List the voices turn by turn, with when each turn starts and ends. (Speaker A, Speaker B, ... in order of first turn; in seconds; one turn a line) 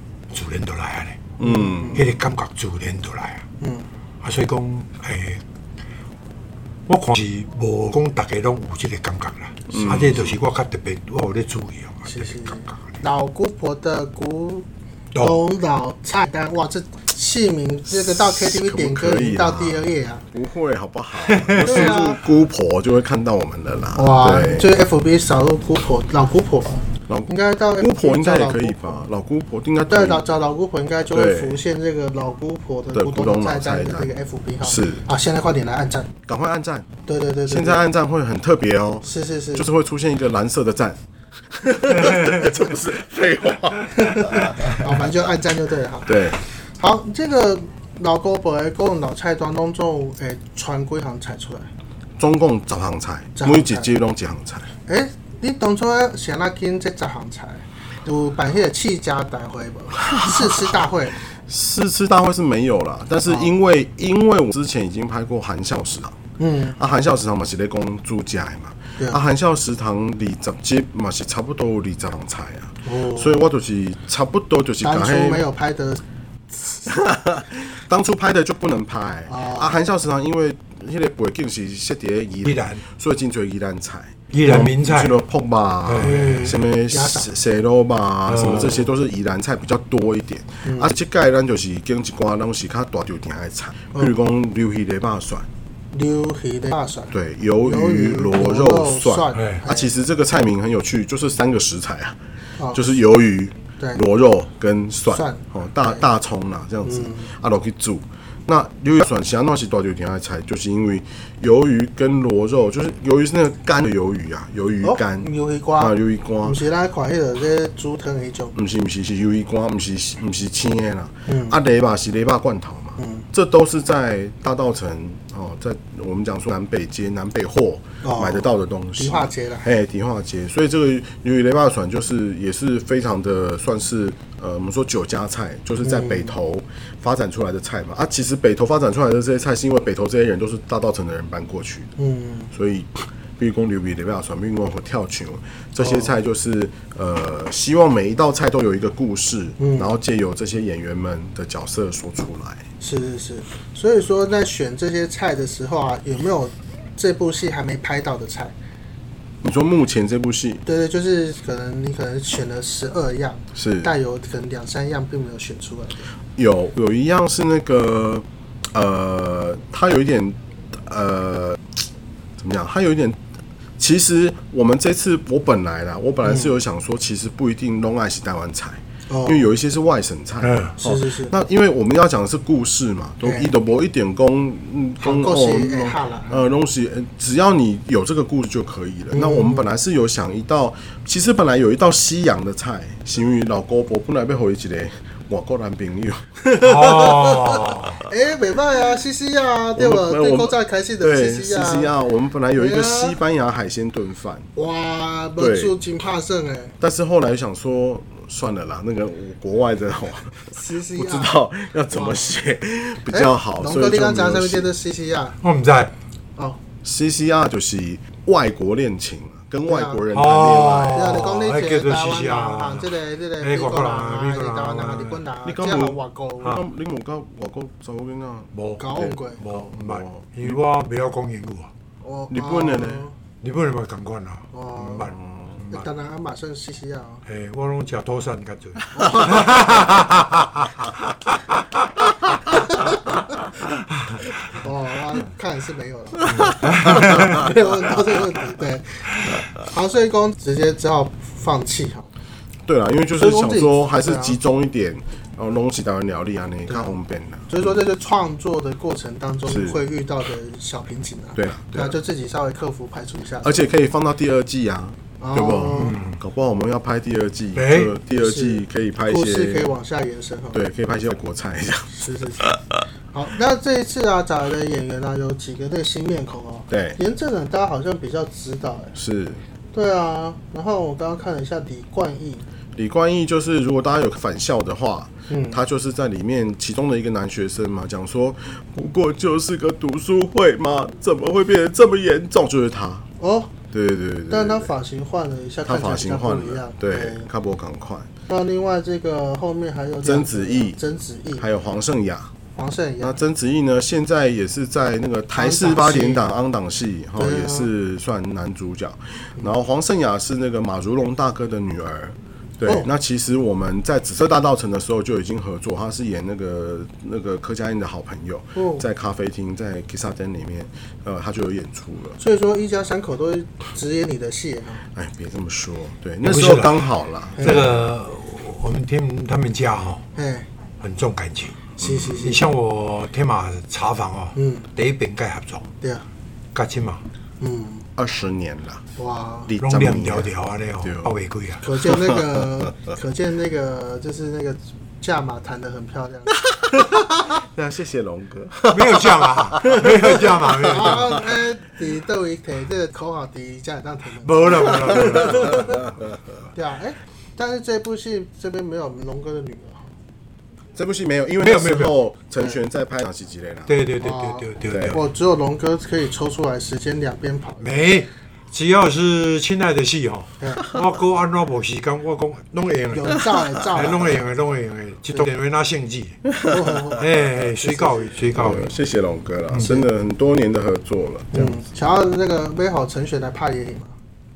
Speaker A: 0.3-3.4
Speaker B: 1.4-2.0
Speaker C: 1.4-2.0
Speaker C: 3.6-3.9
Speaker A: 4.2-5.4
Speaker A: 6.9-12.9
Speaker B: 9.7-10.4
Speaker C: 12.1-14.7
Speaker C: 15.2-20.2
Speaker B: 17.9-24.7
Speaker A: 21.2-21.8
Speaker C: 21.6-22.2
Speaker C: 23.9-29.1
Speaker B: 27.1-30.3
Speaker C: 29.9-36.1
Speaker B: 31.1-31.6
Speaker B: 32.9-34.1
Speaker B: 34.6-35.0
Speaker B: 36.3-36.9
Speaker C: 37.1-37.8
Speaker B: 37.5-41.0
Speaker C: 39.0-39.7
Speaker B: 41.5-44.9
Speaker C: 44.0-46.2
Speaker B: 46.0-46.4
Speaker C: 46.8-51.7
Speaker B: 52.2-54.7
Speaker C: 53.4-53.9
Speaker C: 54.9-61.2
Speaker B: 60.0-60.8
Speaker B: 61.3-66.2
Speaker C: 66.4-66.8
Speaker B: 66.7-75.4
Speaker C: 72.8-73.4
Speaker C: 74.8-76.0
Speaker B: 76.9-95.5
Speaker C: 79.3-79.7
Speaker A: 82.4-82.8
Speaker A: 84.3-85.2
Speaker A: 85.9-86.5
Speaker C: 86.0-87.3
Speaker A: 88.3-88.8
Speaker C: 95.9-99.9
Speaker B: 97.1-102.2
Speaker A: 99.3-99.6
Speaker C: 102.6-102.8
Speaker B: 102.7-116.6
Speaker C: 105.1-105.4
Speaker C: 106.8-107.3
Speaker C: 114.8-118.5
Speaker B: 118.5-141.9
Speaker C: 121.3-121.6
Speaker C: 123.0-123.2
Speaker C: 128.0-129.7
Speaker C: 135.8-136.3
Speaker C: 142.0-142.5
Speaker B: 142.5-152.6
Speaker C: 145.8-146.1
Speaker C: 149.6-149.9
Speaker C: 152.8-158.5
Speaker B: 159.4-160.6
Speaker C: 160.6-166.1
Speaker B: 163.5-163.9
Speaker B: 166.3-171.7
Speaker B: 172.4-173.2
Speaker B: 173.8-197.3
Speaker C: 179.1-179.4
Speaker A: 180.4-180.7
Speaker C: 180.8-181.3
Speaker C: 183.2-183.5
Speaker C: 185.0-186.4
Speaker C: 189.1-189.6
Speaker A: 196.6-198.0
Speaker C: 196.6-201.9
Speaker B: 199.7-204.5
Speaker C: 202.5-203.2
Speaker C: 204.6-206.8
Speaker B: 205.4-205.7
Speaker B: 206.8-214.7
Speaker C: 210.5-211.3
Speaker C: 211.9-212.3
Speaker C: 213.1-215.4
Speaker A: 215.4-215.9
Speaker B: 216.8-221.1
Speaker C: 219.7-220.0
Speaker A: 220.1-225.2
Speaker C: 220.9-226.6
Speaker B: 225.4-229.1
Speaker A: 228.5-231.7
Speaker C: 228.8-229.4
Speaker B: 229.7-230.6
Speaker C: 232.0-233.1
Speaker B: 232.3-233.1
Speaker A: 233.4-235.8
Speaker C: 234.5-235.1
Speaker B: 235.0-235.6
Speaker C: 235.7-237.2
Speaker A: 237.2-240.9
Speaker C: 238.9-239.7
Speaker C: 242.4-243.4
Speaker C: 244.6-252.1
Speaker B: 246.2-247.4
Speaker A: 246.2-247.4
Speaker B: 252.7-257.8
Speaker C: 253.2-254.4
Speaker C: 257.5-263.6
Speaker B: 259.5-259.8
Speaker B: 261.4-261.9
Speaker B: 263.4-269.7
Speaker C: 265.2-266.0
Speaker A: 265.8-266.2
Speaker A: 267.6-267.9
Speaker C: 268.1-270.6
Speaker B: 270.5-272.8
Speaker C: 271.9-272.5
Speaker C: 273.1-278.9
Speaker B: 276.7-277.0
Speaker B: 278.9-279.4
Speaker C: 279.7-282.4
Speaker B: 282.8-293.1
Speaker C: 285.3-285.6
Speaker C: 293.2-293.5
Speaker B: 293.7-294.7
Speaker C: 294.3-297.2
Speaker B: 295.6-298.1
Speaker C: 298.3-301.4
Speaker B: 300.0-300.8
Speaker B: 301.4-302.3
Speaker C: 302.5-303.2
Speaker B: 303.0-322.2
Speaker C: 305.4-306.2
Speaker C: 307.2-307.7
Speaker C: 318.6-318.8
Speaker C: 322.2-324.8
Speaker B: 324.9-327.8
Speaker A: 326.2-326.9
Speaker C: 327.4-327.6
Speaker A: 327.4-330.0
Speaker C: 330.1-330.5
Speaker A: 330.8-335.6
Speaker C: 331.8-332.4
Speaker B: 331.8-332.3
Speaker C: 334.3-334.7
Speaker A: 336.5-337.0
Speaker C: 337.4-337.9
Speaker B: 337.9-338.8
Speaker C: 339.0-339.5
Speaker B: 339.5-340.3
Speaker A: 339.6-341.6
Speaker B: 340.8-341.1
Speaker C: 341.6-346.9
Speaker B: 341.8-342.7
Speaker B: 346.4-351.2
Speaker A: 348.7-351.2
Speaker C: 350.6-355.9
Speaker A: 354.2-355.9
Speaker B: 355.5-355.7
Speaker C: 356.5-359.9
Speaker B: 360.7-363.7
Speaker A: 361.4-361.9
Speaker A: 363.7-365.0
Speaker C: 364.0-367.7
Speaker B: 364.7-365.0
Speaker A: 367.6-376.2
Speaker C: 370.4-370.7
Speaker C: 372.9-374.2
Speaker B: 376.3-376.6
Speaker C: 376.4-378.3
Speaker A: 377.0-378.7
Speaker B: 378.3-381.6
Speaker C: 381.3-383.9